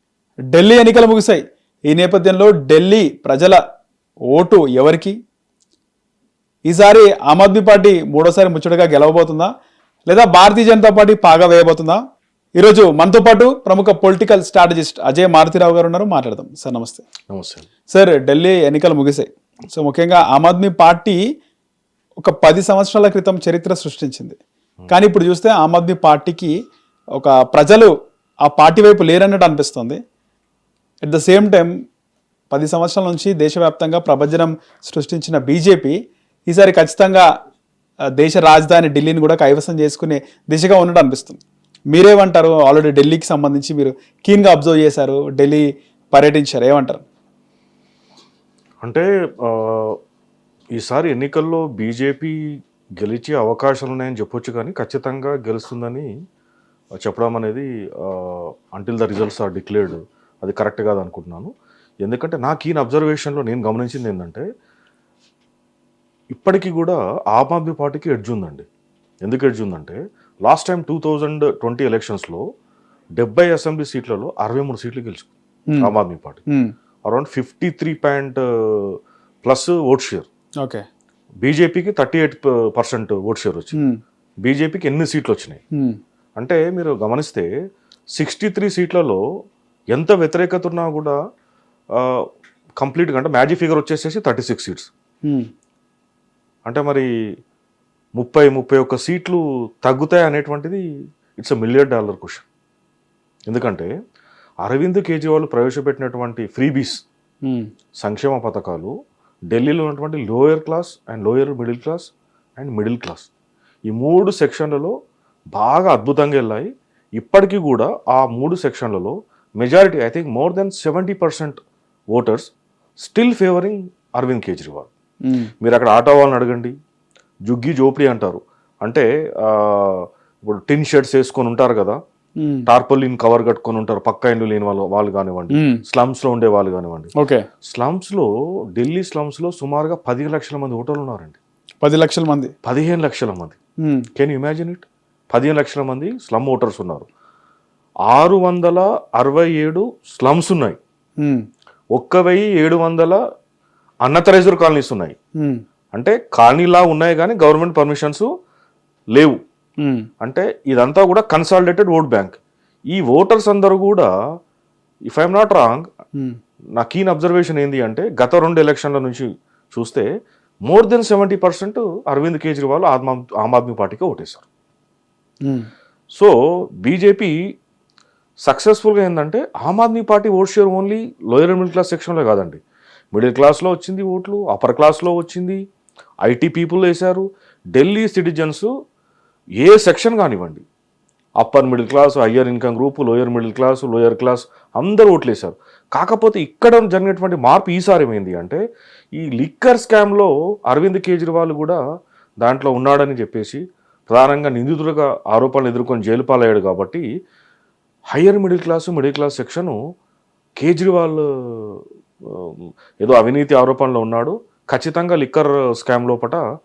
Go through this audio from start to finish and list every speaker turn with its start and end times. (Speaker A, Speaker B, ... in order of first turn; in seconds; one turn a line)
Speaker A: 0.5-3.6
Speaker A: 4.3-5.2
Speaker A: 6.7-9.5
Speaker A: 10.1-12.0
Speaker A: 12.6-17.1
Speaker B: 17.3-17.7
Speaker A: 17.9-21.2
Speaker A: 22.2-24.4
Speaker A: 24.9-26.5
Speaker A: 27.2-27.9
Speaker A: 28.4-30.0
Speaker A: 31.1-31.7
Speaker A: 32.5-36.0
Speaker A: 36.5-37.3
Speaker A: 38.2-41.4
Speaker A: 41.9-47.0
Speaker B: 48.8-50.0
Speaker B: 50.8-52.4
Speaker B: 53.0-56.1
Speaker B: 57.0-61.5
Speaker B: 62.0-64.4
Speaker B: 66.3-68.7
Speaker B: 69.2-72.4
Speaker B: 73.2-76.4
Speaker B: 77.1-80.3
Speaker B: 81.4-83.8
Speaker A: 83.7-84.0
Speaker B: 84.4-85.6
Speaker B: 86.4-87.5
Speaker B: 88.2-89.2
Speaker B: 89.9-91.2
Speaker B: 92.0-92.2
Speaker B: 92.8-94.9
Speaker B: 96.7-97.1
Speaker B: 98.2-100.8
Speaker B: 101.4-102.5
Speaker B: 103.5-103.9
Speaker B: 104.6-107.0
Speaker B: 108.0-108.9
Speaker B: 109.5-113.3
Speaker B: 113.9-114.9
Speaker B: 115.5-121.6
Speaker B: 122.1-124.9
Speaker B: 125.6-126.7
Speaker B: 127.5-132.0
Speaker A: 132.4-132.7
Speaker B: 132.7-137.1
Speaker A: 135.5-135.8
Speaker A: 137.2-137.4
Speaker B: 137.7-141.4
Speaker A: 141.8-142.5
Speaker B: 142.6-143.6
Speaker B: 144.2-147.1
Speaker B: 148.1-150.8
Speaker B: 151.9-153.2
Speaker B: 154.0-155.2
Speaker B: 155.9-158.3
Speaker A: 159.8-160.1
Speaker B: 160.2-162.4
Speaker B: 162.9-164.1
Speaker B: 165.1-165.9
Speaker B: 166.8-170.1
Speaker B: 170.7-174.4
Speaker B: 176.1-177.4
Speaker B: 178.4-182.6
Speaker B: 183.1-185.6
Speaker B: 186.2-188.7
Speaker B: 189.6-190.6
Speaker B: 191.4-198.6
Speaker B: 199.2-201.8
Speaker B: 202.4-207.1
Speaker B: 208.1-209.8
Speaker B: 210.6-216.4